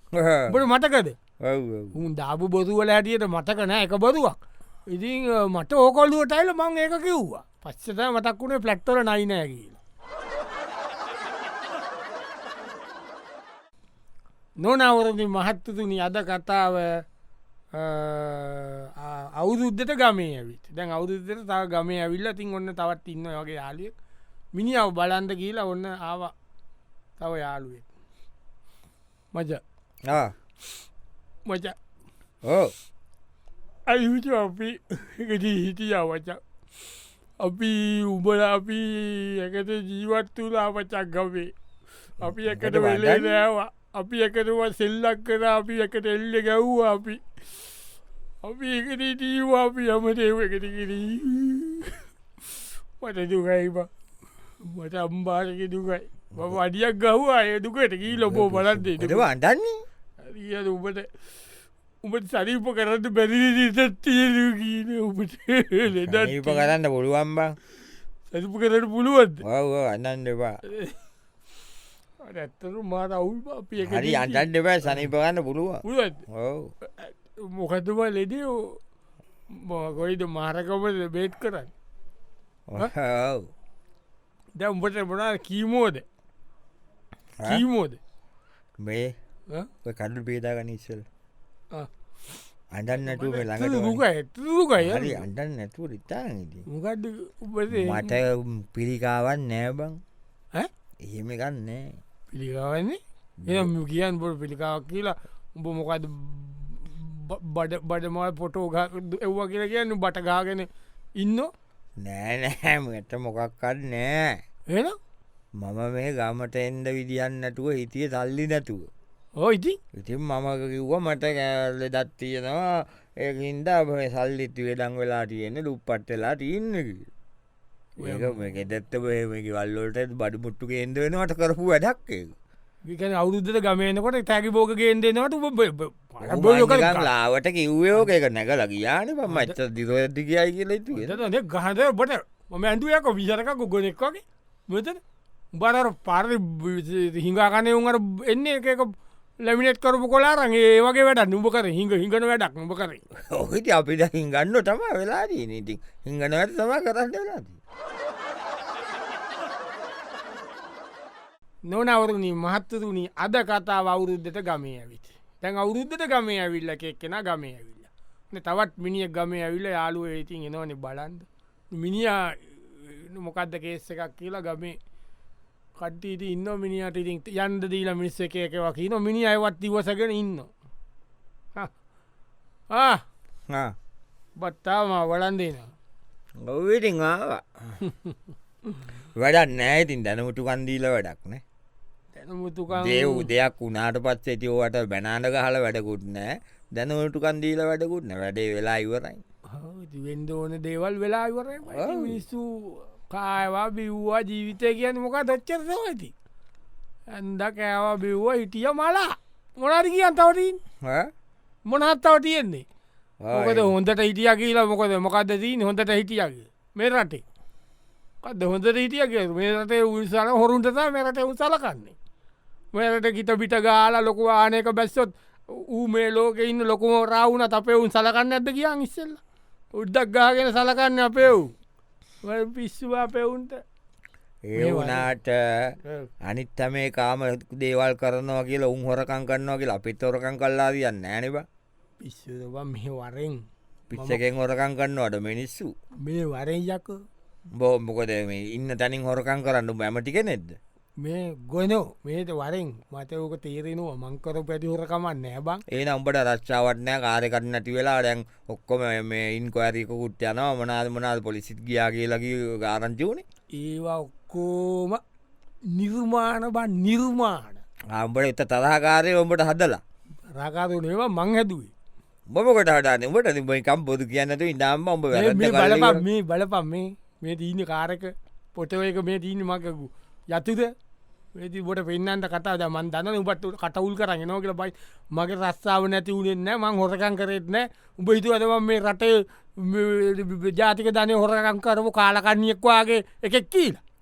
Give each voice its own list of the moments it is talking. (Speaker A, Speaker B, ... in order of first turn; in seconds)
Speaker A: 0.1-0.6, 1.4-2.0, 30.1-30.3, 32.4-32.7, 42.2-43.5, 58.1-59.8, 66.0-67.5, 69.4-70.6, 73.8-76.7, 82.7-83.5, 88.8-89.1, 89.8-91.0, 92.7-94.0, 94.8-96.6, 97.7-100.0, 101.0-102.0, 103.4-103.7, 112.0-114.3, 115.6-118.9, 119.9-127.1, 128.0-132.3, 136.2-141.2, 153.3-157.6, 186.4-187.8, 189.2-191.4, 192.7-199.2, 201.7-202.2, 210.8-211.1, 213.2-213.7, 234.5-241.4, 243.9-245.7, 247.6-250.6, 255.7-263.2, 267.9-269.8, 272.3-276.0
Speaker B: 0.5-1.1, 1.9-4.4, 4.9-9.8, 14.6-17.0, 17.7-23.9, 24.5-26.3, 27.2-27.9, 29.3-29.6, 31.4-31.7, 33.9-36.4, 37.4-41.5, 42.2-47.4, 48.4-52.0, 53.0-53.9, 54.6-59.2, 60.2-61.1, 62.0-66.7, 68.3-69.4, 70.7-71.0, 72.2-75.1, 75.8-76.2, 76.9-78.8, 79.5-81.7, 84.5-86.0, 87.4-88.0, 93.0-95.2, 96.7-98.1, 102.3-110.7, 111.2-111.5, 114.7-115.0, 119.4-119.8, 128.0-128.4, 132.8-137.1, 139.3-139.5, 140.9-145.0, 145.5-153.0, 161.7-174.8, 175.8-180.5, 182.7-183.0, 184.4-185.7, 192.1-193.3, 199.5-206.1, 207.1-210.6, 211.7-212.6, 213.3-217.2, 218.2-221.9, 222.7-229.2, 229.7-231.5, 232.2-233.6, 234.6-235.1, 235.8-236.1, 242.0-244.2, 246.0-247.0, 251.0-255.6, 263.5-265.0, 265.7-267.6, 270.3-271.7, 275.1-280.7, 281.4-293.8